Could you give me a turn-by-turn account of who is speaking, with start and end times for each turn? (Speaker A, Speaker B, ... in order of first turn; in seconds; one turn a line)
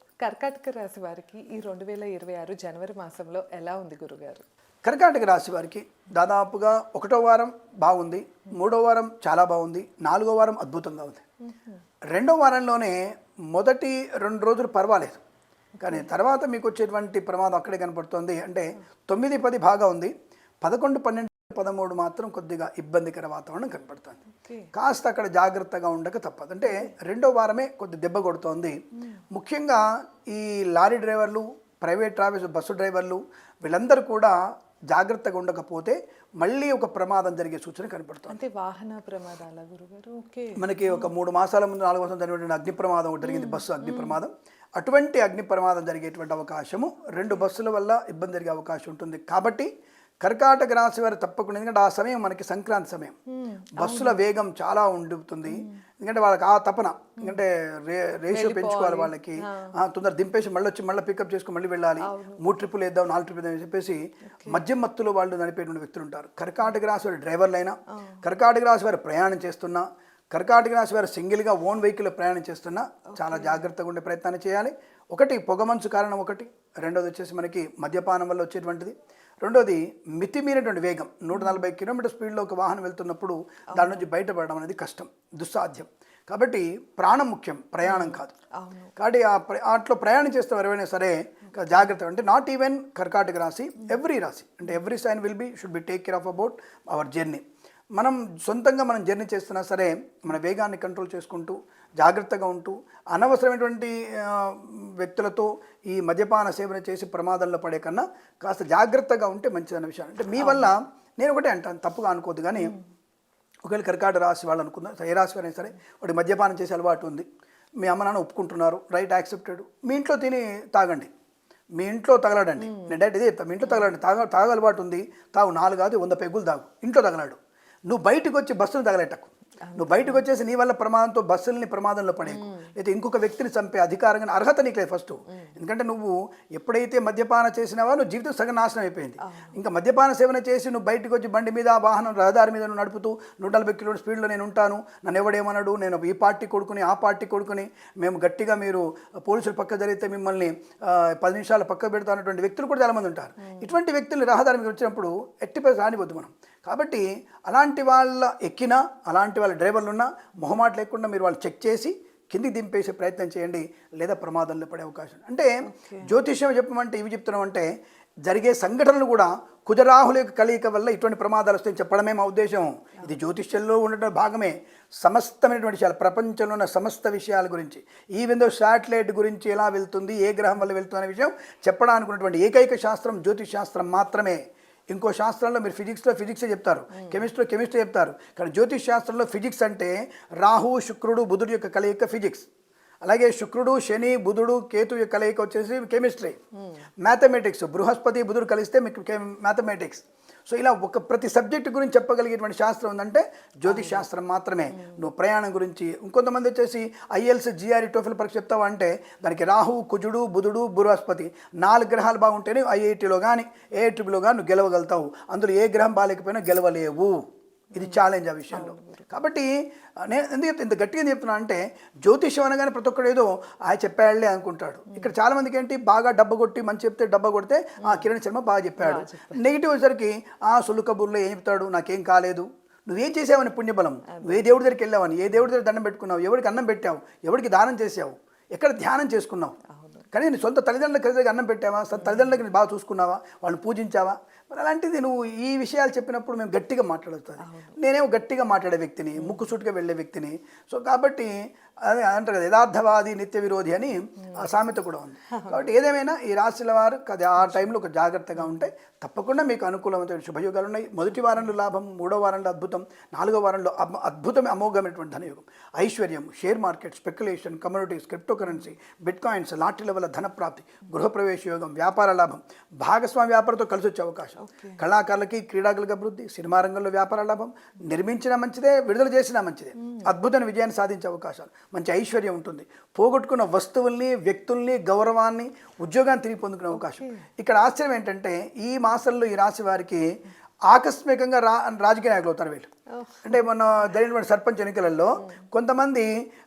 Speaker A: 0.2-4.4
Speaker B: 4.8-11.2
Speaker B: 12.1-15.2
Speaker B: 15.8-24.2
Speaker B: 24.7-28.8
Speaker B: 29.3-38.4
Speaker A: 38.3-41.1
Speaker B: 40.5-49.7
Speaker A: 43.2-44.2
Speaker B: 50.2-53.2
Speaker A: 53.3-54.2
Speaker B: 53.8-88.3
Speaker A: 55.5-55.8
Speaker A: 58.3-59.7
Speaker A: 62.0-62.4
Speaker A: 73.1-73.6
Speaker A: 83.8-84.0
Speaker A: 87.8-88.9
Speaker B: 89.0-97.4
Speaker B: 98.0-112.7
Speaker A: 110.4-110.7
Speaker B: 113.6-117.3
Speaker B: 117.8-121.1
Speaker B: 121.8-165.5
Speaker A: 122.7-123.0
Speaker A: 129.7-130.2
Speaker A: 132.3-132.7
Speaker A: 139.3-139.5
Speaker A: 165.7-166.1
Speaker B: 166.0-167.7
Speaker B: 168.3-184.4
Speaker B: 184.9-192.5
Speaker B: 193.0-196.4
Speaker B: 197.0-219.5
Speaker A: 203.7-204.0
Speaker A: 218.5-219.1
Speaker B: 220.0-239.6
Speaker A: 228.8-229.4
Speaker A: 234.1-234.5
Speaker A: 239.7-240.1
Speaker B: 240.1-251.3
Speaker A: 241.9-242.3
Speaker A: 247.4-247.8
Speaker B: 251.8-290.0
Speaker A: 274.4-274.8
Speaker A: 279.8-280.1
Speaker A: 286.8-287.1
Speaker B: 290.7-292.7
Speaker A: 293.0-293.2
Speaker B: 293.2-296.1